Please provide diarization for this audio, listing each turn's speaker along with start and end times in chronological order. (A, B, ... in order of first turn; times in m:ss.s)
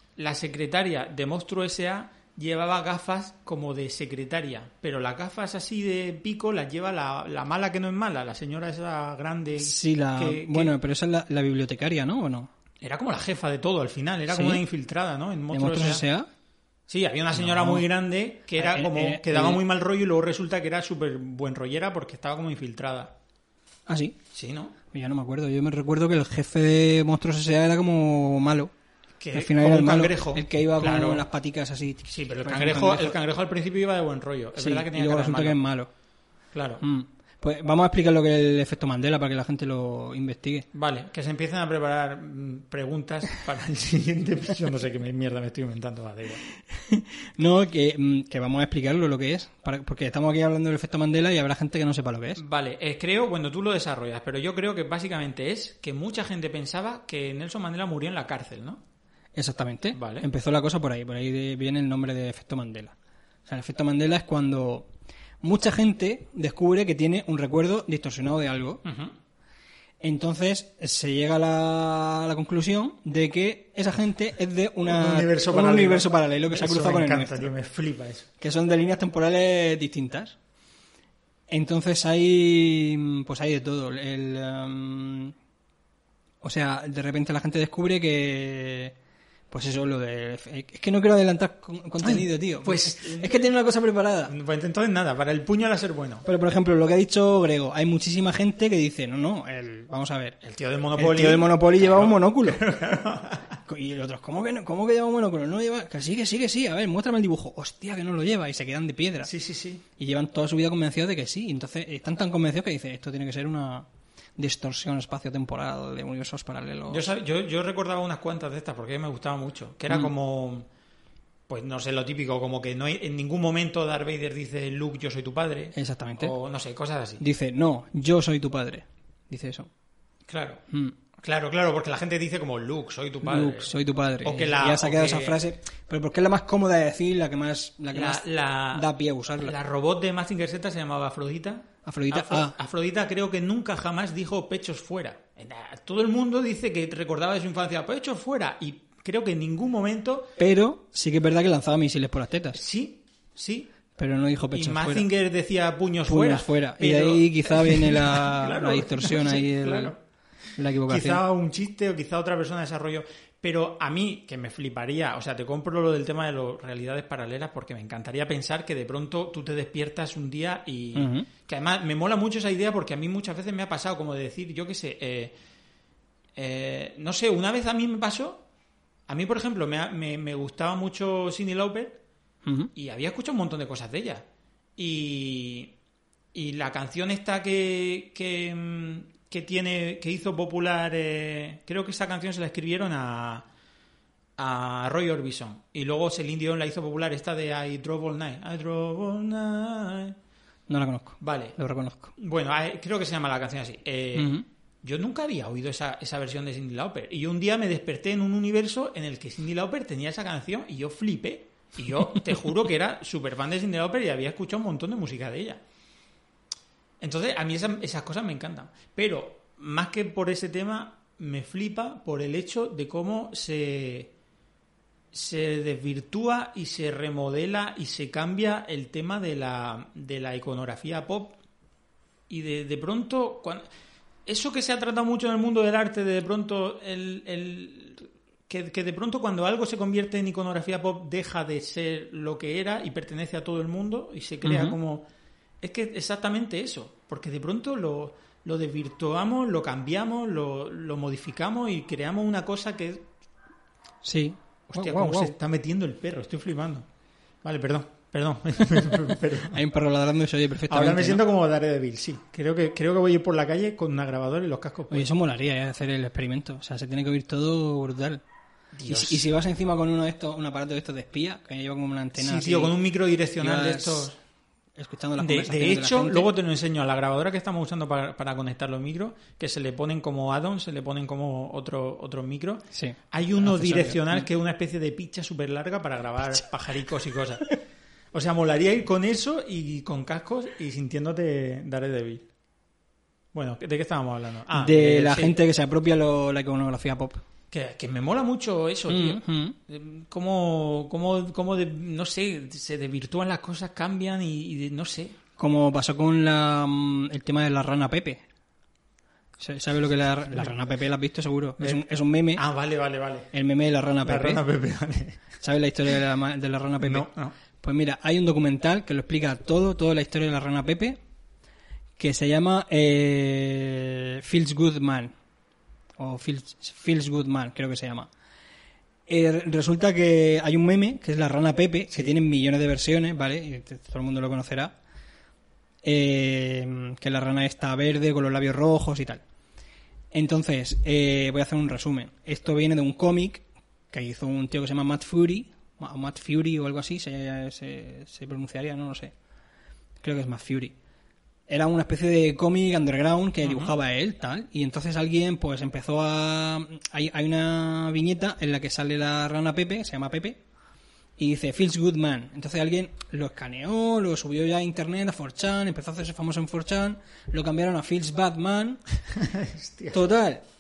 0:00.2-0:10.8 A
0:09.6-0:12.5 B
0:12.8-0:16.0 A
0:14.3-0:14.6 B
0:15.5-0:16.3 B
0:16.9-0:23.2 A
0:17.3-0:17.8 B
0:18.6-0:19.6 B
0:23.9-0:24.2 B
0:24.3-0:24.8 A
0:24.9-0:28.7 B
0:29.2-0:31.2 A
0:29.3-0:33.2 B
0:32.1-0:35.6 A
0:34.6-0:35.9 B
0:36.5-0:36.8 A
0:36.8-0:40.6 B
0:40.7-0:46.4 A
0:46.7-0:52.4 B
0:52.4-0:58.8 A
0:59.4-1:02.9 B
0:59.9-1:00.2 A
1:03.5-1:04.9 B
1:05.4-1:08.8 B
1:08.8-1:09.1 A
1:10.0-1:17.5 B
1:14.9-1:18.3 A
1:18.4-1:20.4 B
1:21.5-1:25.4 B
1:26.4-1:28.9 B
1:29.5-1:34.3 B
1:32.0-1:33.4 A
1:34.3-1:36.2 A
1:36.2-1:40.4 B
1:40.4-1:43.6 A
1:41.0-1:42.6 B
1:43.6-1:49.3 B
1:49.2-1:49.8 A
1:50.0-1:53.9 B
1:54.4-1:57.1 B
1:56.9-2:00.7 A
2:01.5-2:07.2 A
2:05.8-2:06.3 B
2:07.2-2:09.7 B
2:10.3-2:10.6 A
2:10.7-2:10.9 B
2:11.2-2:15.4 A
2:13.2-2:19.5 B
2:17.9-2:30.4 A
2:21.8-2:22.5 B
2:30.4-2:32.6 B
2:32.5-2:33.7 A
2:34.0-2:35.1 B
2:34.5-2:40.0 A
2:36.1-2:39.9 B
2:40.6-2:41.2 B
2:40.9-2:55.4 A
2:50.9-2:51.3 B
2:56.4-2:58.4 A
2:59.1-3:02.0 A
3:02.4-3:02.7 B
3:02.8-3:05.7 A
3:06.3-3:13.5 A
3:14.4-3:20.2 A
3:20.7-3:22.1 B
3:21.2-3:21.6 A
3:22.2-3:35.6 A
3:24.1-3:24.4 B
3:37.0-3:44.1 A
3:45.1-3:51.4 A
3:52.3-3:53.6 A
3:54.3-4:05.1 A
4:04.4-4:04.8 B
4:05.6-4:13.1 A
4:14.0-4:15.3 B
4:14.7-4:16.9 A
4:17.4-4:19.6 A
4:19.5-4:21.2 B
4:20.7-4:25.1 A
4:24.9-4:28.2 B
4:28.7-4:29.3 A
4:28.9-4:32.8 B
4:32.2-4:34.2 A
4:33.4-4:34.2 B
4:34.8-4:36.3 B
4:35.2-4:47.4 A
4:42.7-4:44.3 B
4:48.1-4:52.3 A
4:53.3-4:55.4 A
4:54.5-4:57.2 B
4:57.5-5:05.2 A
4:58.9-4:59.6 B
5:05.4-5:08.2 B
5:09.4-5:12.4 B
5:12.4-5:13.3 A
5:13.3-5:14.4 B
5:14.0-5:15.2 A
5:15.4-5:17.1 B
5:16.8-5:17.3 A
5:17.6-5:21.0 B
5:22.0-5:25.1 B
5:26.0-5:28.1 B
5:29.1-5:34.7 B
5:35.8-5:39.2 B
5:40.1-5:49.1 B
5:50.0-5:50.7 B
5:51.5-6:00.4 B
5:53.4-5:53.7 A
6:01.2-6:08.8 B
6:09.2-6:10.0 A
6:09.9-6:10.4 B